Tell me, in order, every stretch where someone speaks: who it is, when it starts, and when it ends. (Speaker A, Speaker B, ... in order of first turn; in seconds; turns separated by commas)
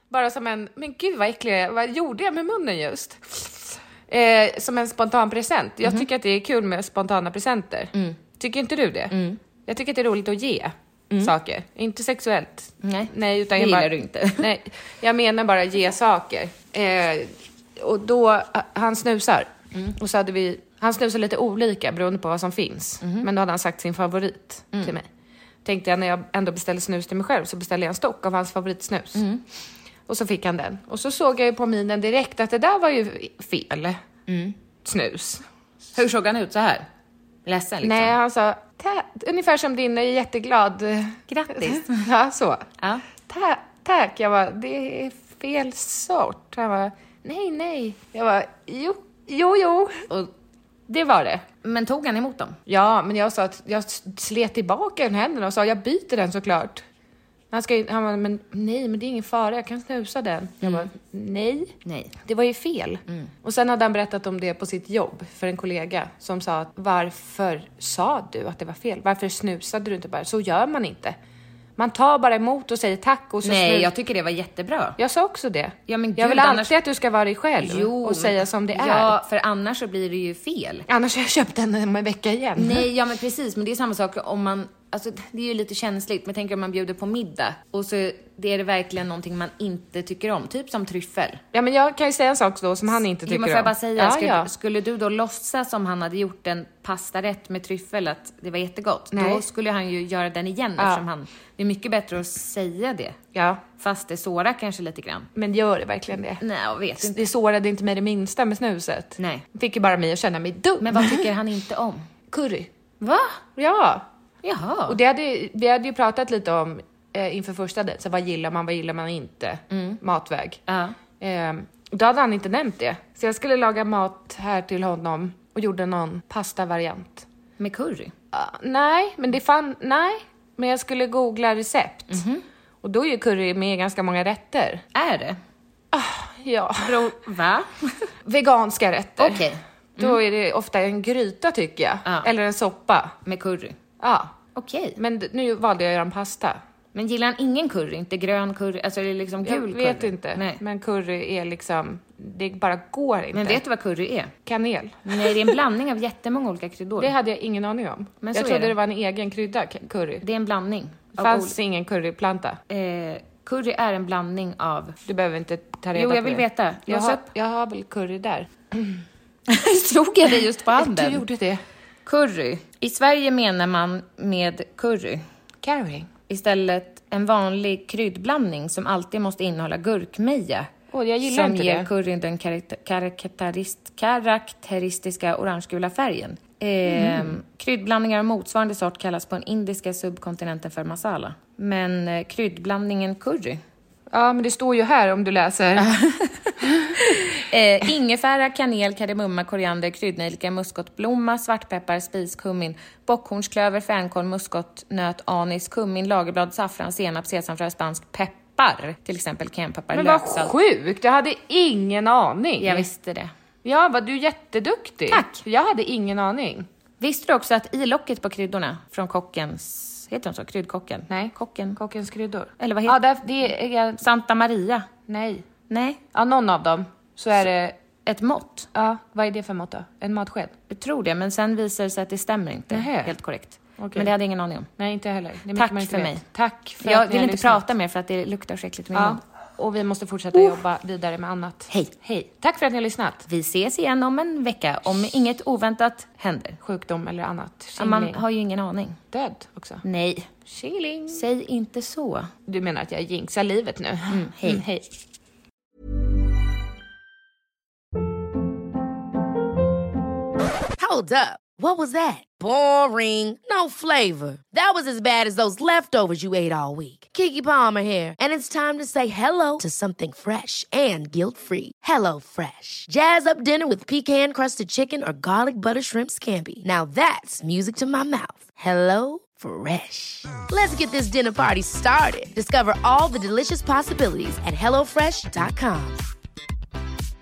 Speaker A: 0.1-25.1, Speaker B: 9.1-9.4, Speaker B: 12.8-14.5, Speaker B: 23.0-23.3, Speaker A: 25.6-29.3, Speaker B: 29.2-29.4, Speaker A: 30.1-34.0, Speaker B: 34.3-34.6, Speaker A: 34.8-35.5, Speaker B: 36.0-36.9, Speaker B: 37.5-38.1, Speaker A: 37.8-42.7, Speaker B: 41.3-42.0, Speaker A: 43.3-50.1, Speaker B: 50.9-52.6, Speaker A: 52.7-56.9, Speaker A: 57.5-71.2, Speaker B: 60.6-60.9, Speaker B: 61.9-62.1, Speaker A: 71.8-73.9, Speaker B: 73.4-75.0, Speaker A: 75.0-79.2, Speaker B: 75.9-76.7, Speaker B: 77.6-80.9, Speaker A: 80.9-82.9, Speaker B: 82.6-91.4, Speaker A: 91.5-94.5, Speaker B: 93.3-103.2, Speaker A: 99.1-99.4, Speaker A: 100.8-101.0, Speaker A: 103.3-103.6, Speaker B: 103.7-105.3, Speaker A: 105.3-106.4, Speaker B: 106.4-107.2, Speaker A: 107.0-111.3, Speaker B: 109.2-109.4, Speaker B: 110.8-112.1, Speaker A: 112.3-112.7, Speaker B: 113.0-113.4, Speaker A: 113.6-114.1, Speaker B: 114.4-115.0, Speaker A: 114.9-120.6, Speaker B: 119.7-120.0, Speaker B: 120.7-121.0, Speaker A: 121.2-127.3, Speaker B: 127.6-128.1, Speaker A: 128.3-132.2, Speaker B: 132.1-132.4, Speaker A: 132.8-134.8, Speaker B: 134.9-135.4, Speaker A: 135.9-137.1, Speaker B: 136.8-138.1, Speaker A: 138.2-143.2, Speaker B: 139.2-140.2, Speaker B: 142.1-142.3, Speaker B: 143.2-143.8, Speaker A: 144.0-144.3, Speaker B: 144.6-145.0, Speaker A: 145.0-146.6, Speaker B: 146.9-150.6, Speaker A: 149.4-153.6, Speaker B: 153.3-154.3, Speaker A: 154.5-155.5, Speaker B: 155.1-157.1, Speaker A: 157.0-160.2, Speaker B: 158.2-158.8, Speaker B: 160.2-161.6, Speaker A: 161.2-162.6, Speaker B: 162.7-165.0, Speaker A: 165.1-168.9, Speaker B: 165.9-167.3, Speaker B: 169.5-171.2, Speaker A: 170.7-171.6, Speaker B: 172.1-175.2, Speaker A: 175.6-176.1, Speaker B: 176.3-180.7, Speaker A: 180.9-181.9, Speaker B: 181.2-193.6, Speaker A: 186.9-187.4, Speaker A: 194.1-195.9, Speaker B: 195.8-196.5, Speaker B: 197.1-210.5, Speaker A: 209.9-212.9, Speaker B: 212.6-213.3, Speaker A: 213.6-216.7, Speaker B: 215.1-215.4, Speaker B: 217.0-221.8, Speaker A: 221.1-224.0, Speaker B: 222.6-223.0, Speaker B: 224.0-224.9, Speaker A: 225.1-225.5, Speaker B: 225.7-226.0, Speaker A: 226.1-227.8, Speaker B: 228.1-228.7, Speaker A: 228.7-230.5, Speaker B: 230.7-234.7, Speaker A: 232.7-233.1, Speaker A: 233.8-234.1, Speaker A: 234.8-237.6, Speaker B: 235.6-236.2, Speaker B: 236.8-239.2, Speaker A: 238.9-243.3, Speaker B: 243.3-246.6, Speaker A: 246.6-248.2, Speaker B: 247.8-249.0, Speaker A: 249.1-249.8, Speaker B: 249.8-250.3, Speaker A: 250.5-251.2, Speaker B: 251.1-252.3, Speaker A: 252.5-254.9, Speaker B: 254.1-254.7, Speaker C: 260.8-286.1